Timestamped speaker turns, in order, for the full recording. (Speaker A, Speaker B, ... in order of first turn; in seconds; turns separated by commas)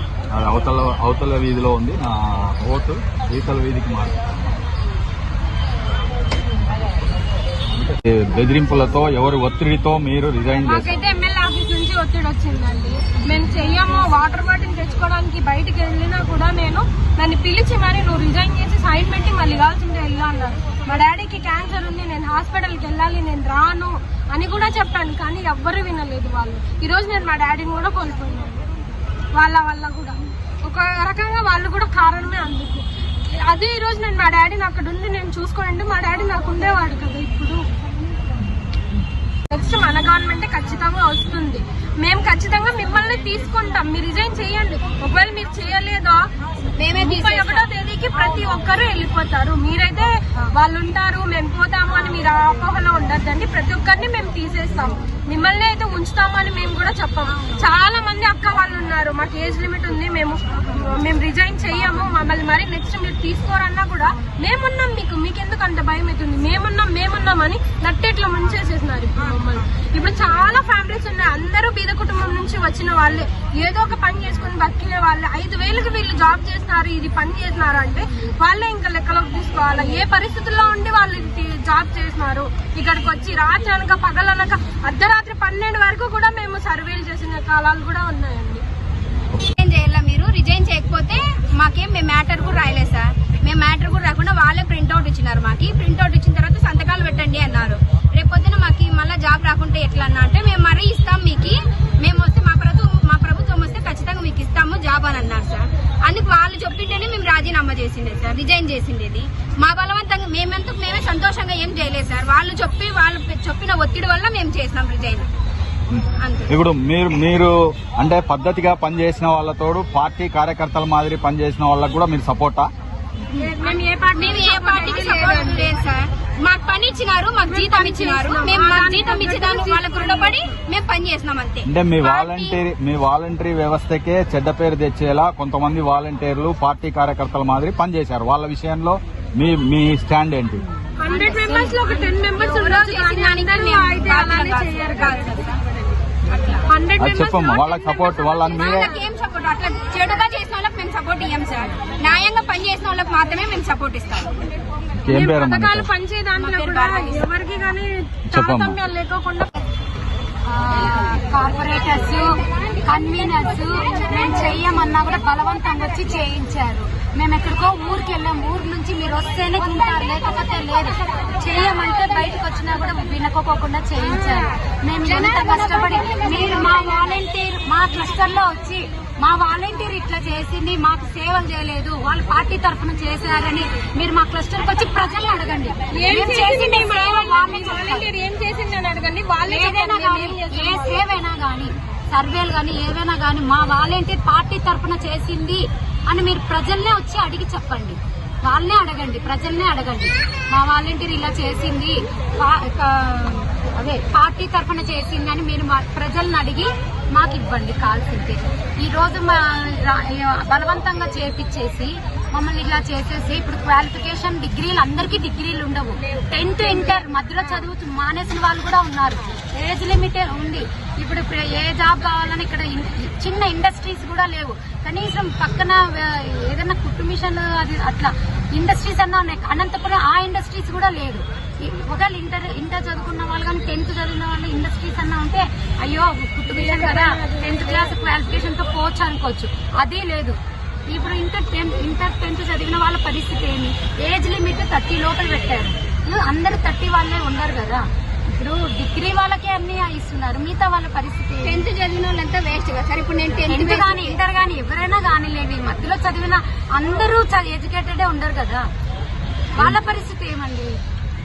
Speaker A: 0.3-4.1, Speaker A: 7.7-10.9, Speaker B: 10.6-28.6, Speaker B: 29.4-32.8, Speaker B: 33.4-37.6, Speaker B: 39.5-46.2, Speaker C: 46.8-47.7, Speaker B: 46.9-88.6, Speaker C: 89.5-115.3, Speaker A: 115.9-122.7, Speaker C: 116.2-116.6, Speaker B: 123.4-125.7, Speaker C: 124.1-132.6, Speaker B: 127.4-130.4, Speaker A: 131.7-140.6, Speaker B: 141.0-145.3, Speaker C: 141.1-145.6, Speaker C: 146.3-146.6, Speaker B: 146.7-149.0, Speaker A: 147.0-148.9, Speaker C: 148.5-154.3, Speaker A: 155.0-155.9, Speaker B: 155.1-159.5, Speaker C: 156.4-157.3, Speaker A: 158.3-158.8, Speaker D: 160.4-188.1, Speaker C: 175.1-177.0, Speaker B: 185.9-191.0, Speaker D: 189.4-251.6, Speaker B: 236.4-237.9, Speaker C: 251.4-254.2, Speaker D: 253.5-258.7, Speaker D: 259.5-260.7